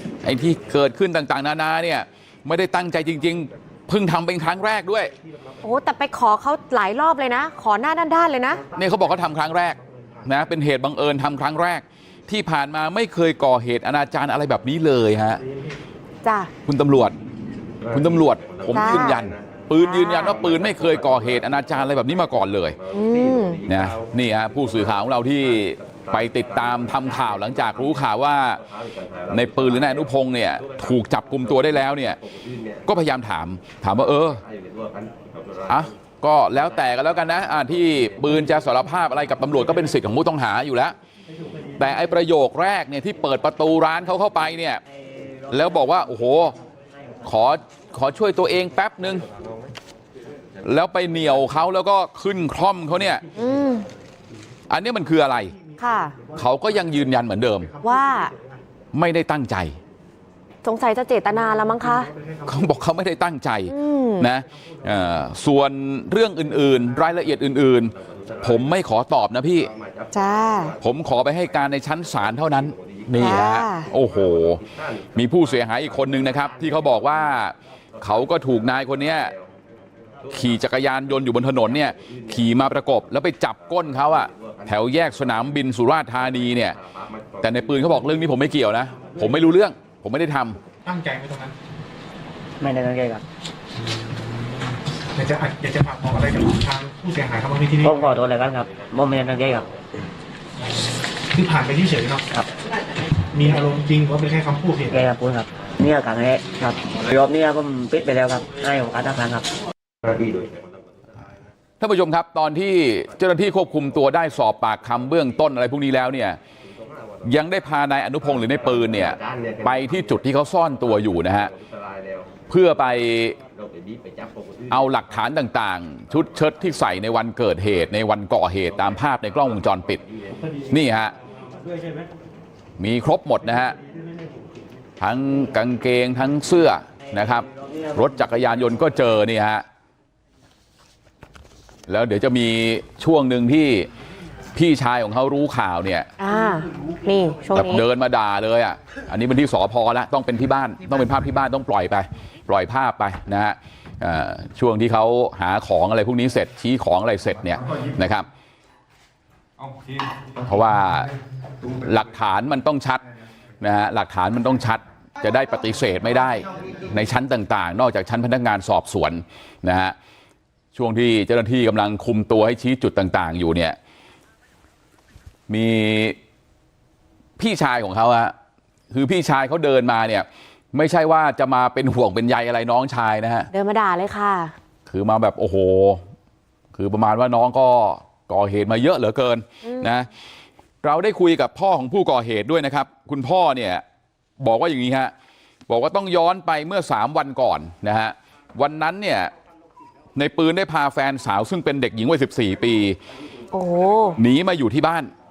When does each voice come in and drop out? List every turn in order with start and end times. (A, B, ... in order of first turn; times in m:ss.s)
0:00.2-0:05.1 A
0:05.6-0:08.6 B
0:08.7-0:15.4 A
0:16.2-0:16.5 B
0:16.6-0:17.1 A
0:17.9-0:22.8 A
0:18.7-0:19.2 B
0:19.8-0:20.4 B
0:22.9-0:23.6 B
0:23.6-0:28.6 A
0:29.3-0:32.2 A
0:32.8-0:34.4 A
0:35.7-0:41.0 A
0:41.8-0:44.8 A
0:45.5-0:46.5 A
0:47.2-0:49.2 A
0:50.6-0:53.2 A
0:53.4-0:53.9 B
0:54.7-0:55.5 A
0:55.8-0:56.2 B
0:56.3-0:57.7 A
0:57.8-0:58.3 B
0:58.9-0:59.8 A
1:00.6-1:02.1 B
1:02.4-1:09.7 A
1:03.7-1:04.3 B
1:10.1-1:10.8 B
1:10.8-1:14.6 A
1:13.2-1:13.9 B
1:15.1-1:19.3 A
1:20.3-1:26.8 A
1:27.4-1:30.6 A
1:30.8-1:31.6 C
1:32.6-1:33.2 D
1:35.2-1:38.0 C
1:37.8-1:39.7 D
1:41.3-1:42.2 C
1:43.3-1:45.0 C
1:44.9-1:49.5 D
1:51.8-1:56.4 A
1:57.2-2:01.5 A
2:02.5-2:03.4 A
2:04.7-2:10.0 A
2:10.7-2:11.1 A
2:12.8-2:13.8 A
2:15.0-2:19.6 A
2:21.9-2:23.9 A
2:24.5-2:26.1 A
2:26.2-2:27.8 B
2:27.5-2:38.3 A
2:39.6-2:40.1 C
2:40.4-2:41.1 A
2:41.8-2:43.0 A
2:43.6-2:49.9 A
2:50.7-2:53.8 A
2:55.5-2:56.2 A
2:57.4-2:58.3 A
2:58.9-3:03.5 A
3:03.5-3:04.5 B
3:04.9-3:06.0 A
3:06.7-3:10.1 A
3:09.6-3:09.9 B
3:10.8-3:13.8 A
3:14.4-3:15.1 A
3:15.7-3:19.3 A
3:20.2-3:23.0 A
3:23.5-3:24.2 B
3:24.2-3:25.1 A